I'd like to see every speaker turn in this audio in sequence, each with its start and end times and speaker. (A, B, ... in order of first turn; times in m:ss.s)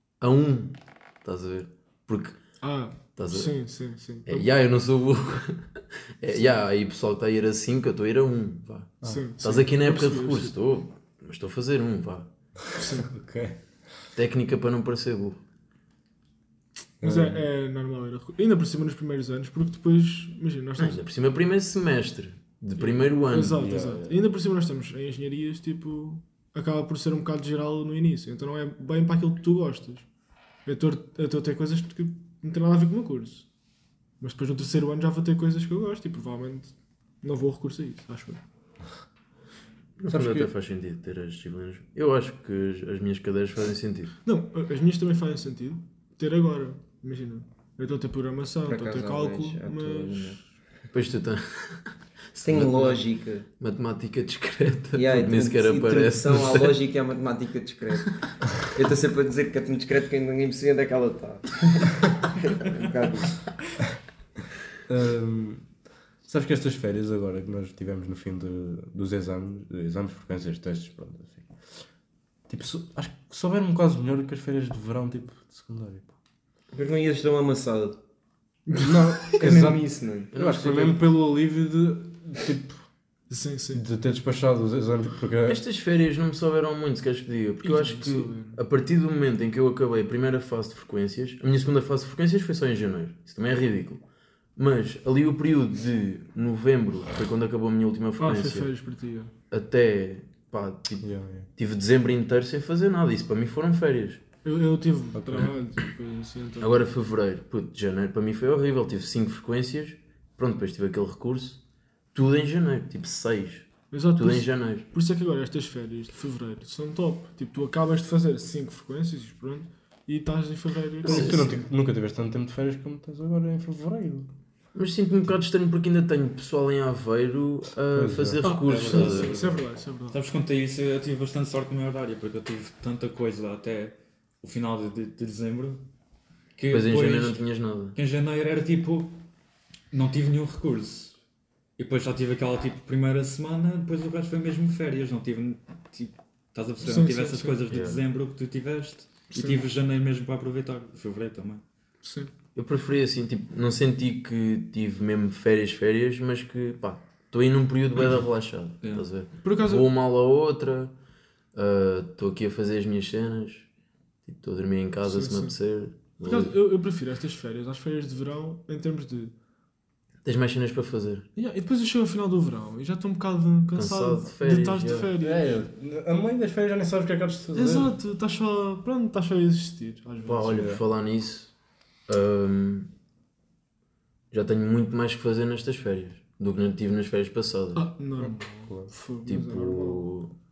0:00.2-0:02.4 A
0:02.6-0:04.5 B
0:03.2-0:03.5 A
0:04.3-0:12.3 A
0:09.0-0:10.5 B
0:12.8-0:13.1 B
0:12.8-0:13.6 C
0:14.2-0:15.4 A
0:17.0-0:17.5 C
0:17.0-0:21.0 B
0:20.8-0:23.8 A
0:22.8-0:30.1 B
0:23.5-0:24.1 C
0:30.6-0:33.5 B
0:34.2-0:38.4 B
0:40.0-0:44.1 A
0:40.1-0:40.5 C
0:44.2-0:50.4 B
0:48.6-0:50.4 D
0:50.9-0:56.8 A
0:52.4-0:53.5 D
0:54.9-1:03.5 D
1:04.9-1:05.7 C
1:06.3-1:11.5 C
1:12.5-1:16.1 C
1:16.7-1:18.0 D
1:18.7-1:19.4 B
1:18.8-1:22.9 C
1:19.4-1:20.3 D
1:20.3-1:21.0 A
1:23.3-1:23.8 B
1:23.7-1:25.6 C
1:25.5-1:34.0 A
1:27.6-1:28.6 B
1:34.6-1:38.7 A
1:38.2-1:39.3 B
1:39.5-1:44.2 A
1:41.0-1:41.5 C
1:44.4-1:46.9 B
1:45.2-1:45.5 C
1:46.6-1:51.6 A
1:52.1-1:54.8 A
1:53.9-2:01.4 B
2:01.0-2:01.6 A
2:01.0-2:04.3 C
2:04.7-2:09.4 A
2:07.9-2:09.6 C
2:08.4-2:10.2 B
2:10.1-2:15.8 E
2:16.6-2:17.4 E
2:16.7-2:18.0 A
2:18.0-2:19.2 E
2:19.9-2:21.2 E
2:21.8-2:31.6 E
2:26.8-2:27.8 B
2:27.7-2:28.0 A
2:29.3-2:29.7 B
2:32.0-2:32.3 B
2:32.6-2:40.9 A
2:38.8-2:39.1 E
2:39.4-2:39.9 B
2:41.5-2:43.7 A
2:44.3-2:46.5 A
2:45.0-2:45.6 B
2:46.2-2:49.3 B
2:50.2-2:51.3 A
2:51.4-2:55.6 B
2:53.7-2:55.1 A
2:55.1-2:58.0 C
2:57.5-3:00.6 B
3:00.2-3:01.5 A
3:00.5-3:00.8 C
3:02.1-3:02.9 A
3:04.3-3:07.9 A
3:07.8-3:10.1 B
3:08.2-3:08.9 C
3:09.3-3:10.3 A